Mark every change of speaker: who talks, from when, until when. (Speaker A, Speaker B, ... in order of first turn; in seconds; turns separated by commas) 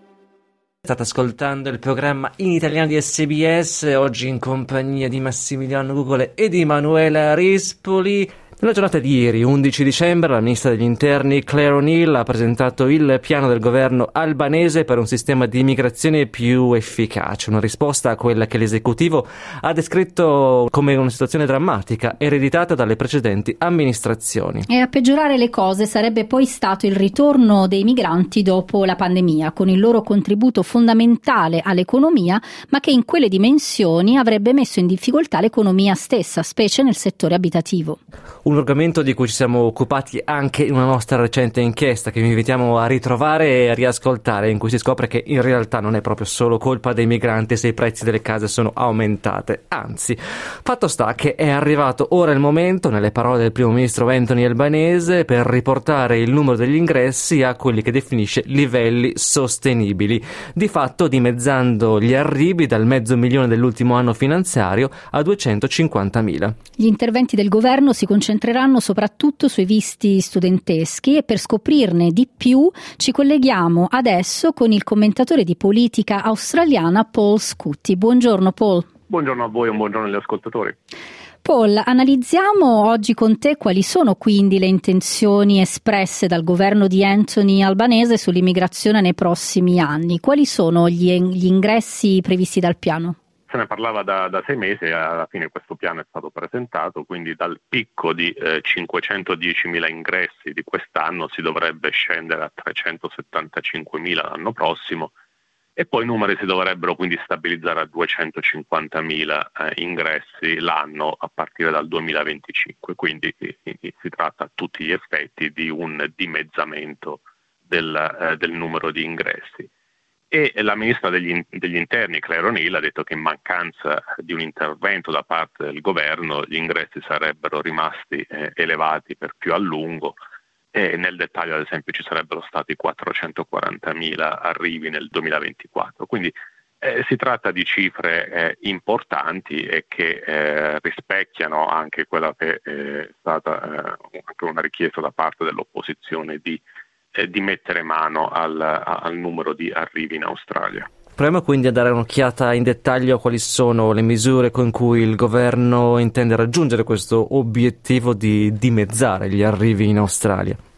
Speaker A: 0.8-24.7, Speaker B: 24.7-38.0, Speaker A: 38.5-66.5, Speaker B: 66.8-78.9, Speaker C: 79.1-80.8, Speaker B: 81.4-93.2, Speaker C: 93.5-105.2, Speaker C: 105.8-119.7, Speaker C: 120.3-130.2, Speaker C: 130.7-146.6, Speaker C: 147.1-150.9, Speaker A: 151.2-160.6